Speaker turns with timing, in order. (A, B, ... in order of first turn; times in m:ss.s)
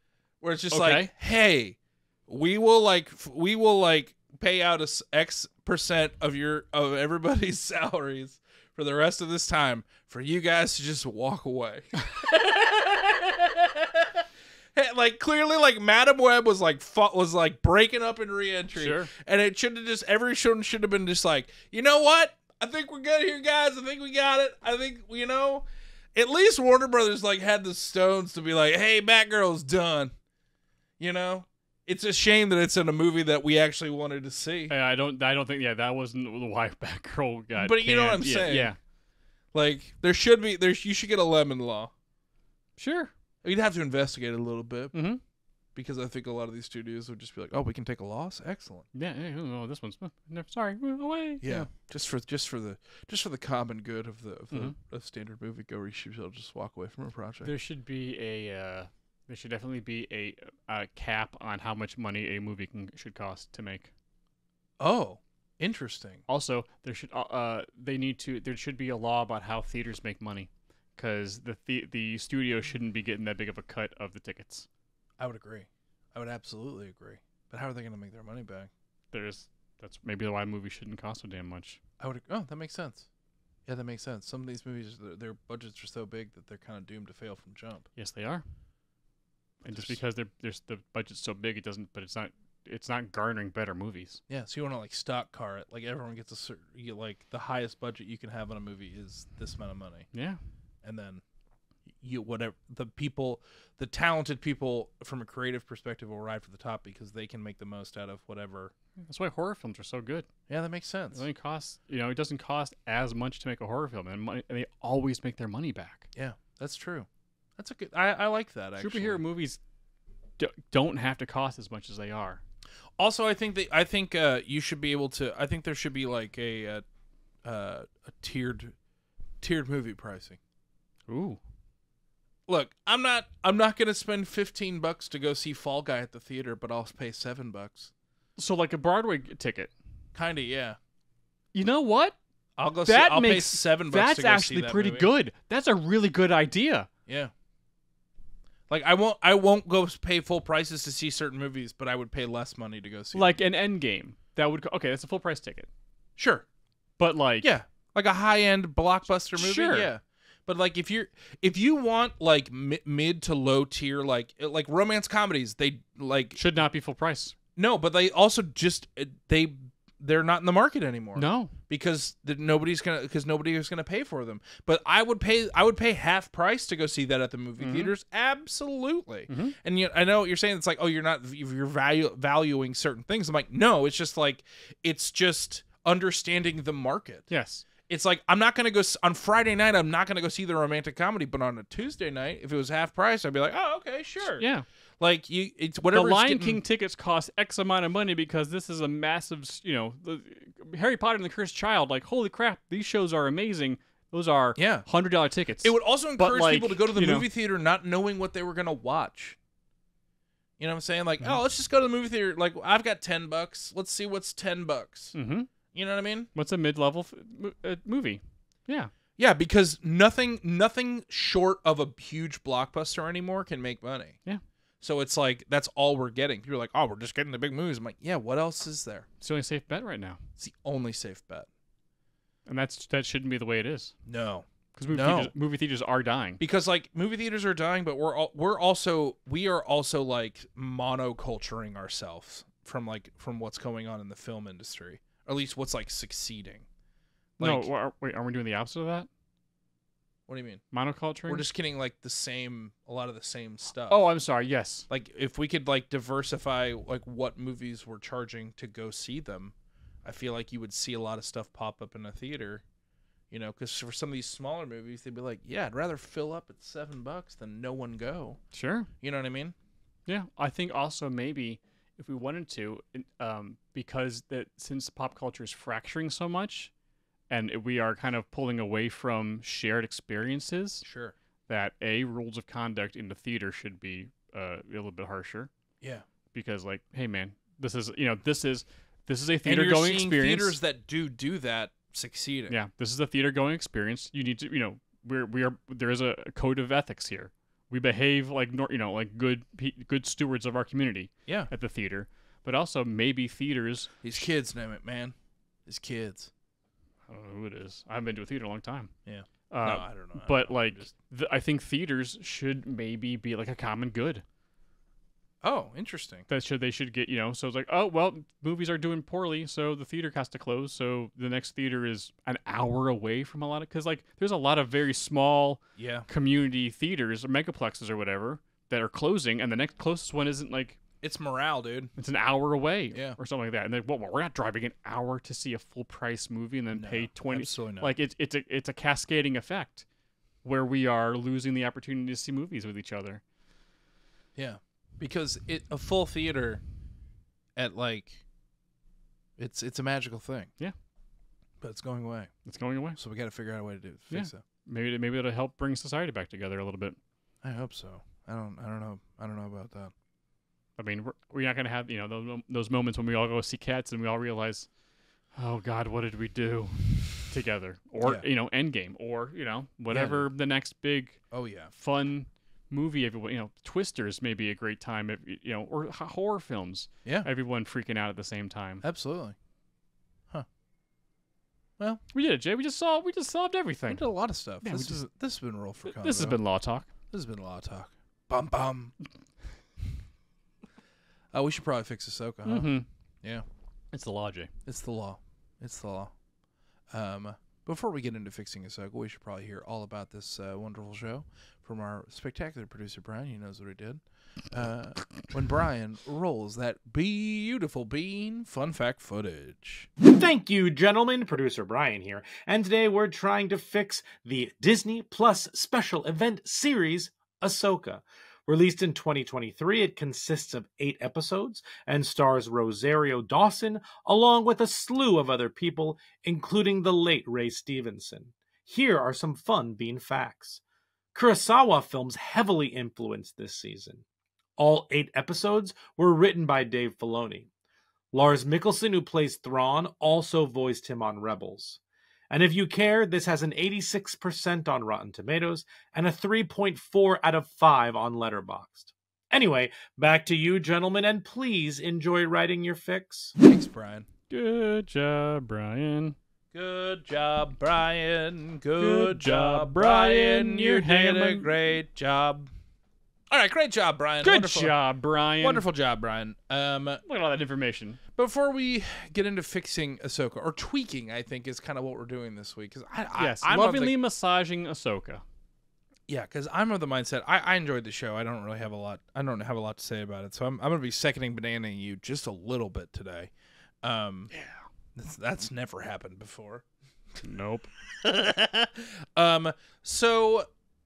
0:00.4-0:30.1 A
0:00.7-0:01.1 B
0:18.7-0:19.1 B
0:31.0-0:34.7 A
0:34.7-0:38.8 B
0:37.6-0:38.7 A
0:39.5-0:41.9 A
0:42.8-0:43.1 B
0:43.4-0:45.0 A
0:44.9-0:45.2 B
0:45.7-0:48.8 A
0:48.9-0:51.7 B
0:51.4-0:57.5 A
0:57.4-1:03.9 B
1:04.8-1:06.2 A
1:06.3-1:14.7 B
1:15.2-1:18.7 A
1:19.1-1:21.8 B
1:22.0-1:23.1 A
1:23.6-1:27.9 A
1:28.0-1:28.4 B
1:29.6-1:34.2 B
1:29.7-1:30.0 A
1:34.3-1:40.1 A
1:40.1-1:40.4 B
1:40.8-1:41.2 A
1:42.0-1:48.7 A
1:49.0-1:50.3 B
1:50.5-1:51.2 A
1:51.1-1:56.1 B
1:56.1-1:59.2 A
1:58.8-1:59.6 B
2:00.4-2:02.4 B
2:03.0-2:06.8 A
2:07.4-2:08.8 A
2:09.4-2:10.4 A
2:11.1-2:11.4 B
2:12.5-2:17.9 A
2:18.4-2:19.7 B
2:20.1-2:20.8 A
2:21.5-2:22.2 B
2:22.6-2:25.1 A
2:22.8-2:26.9 B
2:27.1-2:27.3 A
2:28.7-2:33.4 A
2:33.1-2:35.7 B
2:36.2-2:36.4 A
2:37.0-2:37.5 B
2:37.4-2:46.4 A
2:39.3-2:39.9 B
2:46.3-2:47.3 B
2:47.6-3:07.3 A
2:51.1-2:51.5 B
2:57.6-2:57.9 B
2:59.3-2:59.6 B
3:07.3-3:07.6 B
3:07.8-3:14.5 A
3:14.2-3:14.6 B
3:15.0-3:16.6 A
3:15.9-3:27.2 B
3:24.6-3:24.9 A
3:25.6-3:29.4 A
3:30.6-3:35.1 A
3:35.1-3:35.5 B
3:35.7-3:36.3 A
3:36.3-3:38.9 B
3:39.2-3:44.2 A
3:44.8-3:49.0 A
3:49.2-3:50.2 B
3:50.4-3:51.5 A
3:52.4-3:53.9 B
3:54.0-3:55.3 A
3:54.7-3:56.4 B
3:56.4-4:06.6 A
4:07.4-4:07.7 A
4:07.4-4:09.1 B
4:10.3-4:10.6 A
4:10.7-4:11.5 B
4:11.3-4:14.1 A
4:13.9-4:14.9 B
4:14.9-4:22.6 A
4:23.3-4:28.4 A
4:28.5-4:28.9 B
4:29.0-4:29.5 A
4:30.1-4:36.7 B
4:37.3-4:40.8 B
4:40.8-4:41.1 A
4:41.5-4:45.5 B
4:46.3-4:50.5 B
4:49.4-4:52.5 A
4:52.5-5:04.1 B
5:04.0-5:05.1 A
5:05.6-5:06.3 A
5:07.1-5:08.9 B
5:09.0-5:10.9 A
5:09.5-5:14.2 B
5:15.4-5:16.2 A
5:16.3-5:30.8 B
5:25.8-5:26.0 A
5:31.0-5:31.9 A
5:32.0-5:39.8 B
5:36.7-5:37.9 A
5:40.4-5:43.2 B
5:44.3-5:46.6 A
5:47.6-5:48.2 A
5:49.4-5:50.5 A
5:51.6-5:52.3 A
5:52.4-5:53.0 B
5:53.0-5:54.4 A
5:54.1-5:57.0 B
5:57.4-5:59.9 A
6:00.8-6:04.7 B
6:05.3-6:18.8 B
6:09.9-6:10.3 A
6:11.3-6:11.7 A
6:18.8-6:19.3 A
6:22.1-6:24.0 B
6:23.9-6:26.4 A
6:24.6-6:25.0 B
6:25.8-6:26.9 B
6:27.1-6:28.9 A
6:31.3-6:33.4 A
6:32.4-6:32.8 B
6:33.9-6:34.5 B
6:34.6-6:36.1 A
6:36.9-6:49.9 A
6:50.0-7:10.6 C
7:11.1-7:14.0 C
7:14.6-7:17.5 C
7:18.1-7:33.3 C
7:33.4-7:34.1 A
7:34.3-7:36.2 B
7:36.5-7:42.5 A
7:38.8-7:41.8 B
7:43.3-7:44.7 A
7:44.2-7:45.6 B
7:45.4-7:47.0 A
7:47.0-7:48.0 B
7:48.1-7:53.9 A
7:53.2-7:55.2 B
7:56.1-8:03.3 A
8:03.8-8:04.3 A
8:04.3-8:04.6 B
8:04.9-8:06.6 A
8:07.2-8:07.7 B
8:08.0-8:10.5 A